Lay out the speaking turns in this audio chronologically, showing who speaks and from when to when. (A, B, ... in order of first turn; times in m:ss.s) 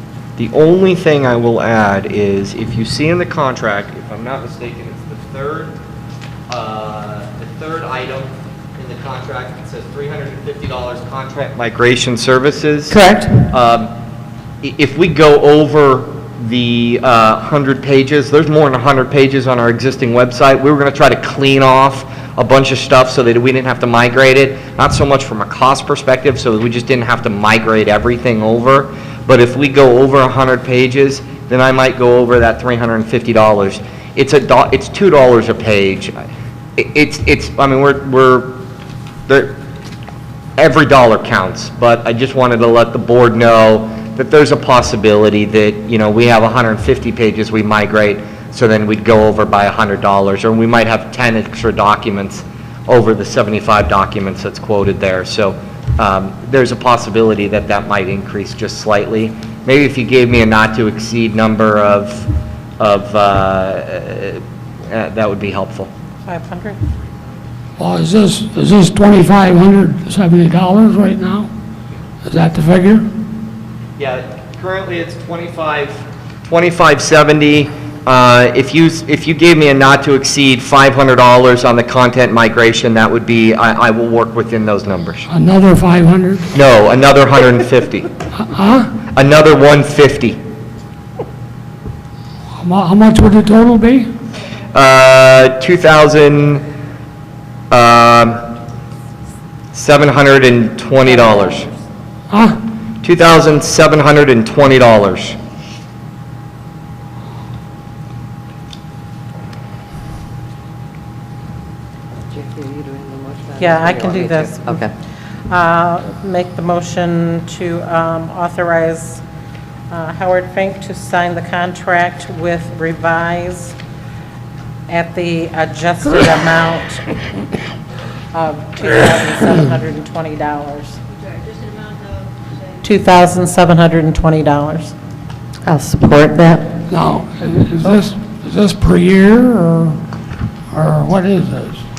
0:00.4-0:05.8 A
0:06.5-0:13.0 A
0:12.9-0:13.5 B
0:13.5-0:13.9 A
0:14.6-0:36.1 A
0:36.8-0:38.6 A
0:39.3-0:39.6 A
0:40.6-1:02.3 A
1:02.8-1:05.9 A
1:06.2-1:06.8 C
1:07.8-1:11.5 D
1:12.2-1:13.1 D
1:14.0-1:25.3 A
1:25.3-1:26.5 D
1:26.5-1:28.1 A
1:28.4-1:29.0 D
1:29.1-1:30.4 A
1:32.6-1:34.1 D
1:34.7-1:36.6 A
1:37.7-1:38.4 A
1:39.7-1:41.7 A
1:42.3-1:42.6 D
1:43.0-1:45.4 A
1:52.3-1:54.9 B
1:53.6-1:54.8 C
1:55.5-1:59.2 C
1:59.9-2:03.7 C
2:04.9-2:07.1 C
2:08.3-2:11.0 C
2:12.8-2:14.9 C
2:15.6-2:16.8 B
2:16.9-2:20.0 D
2:20.7-2:21.8 D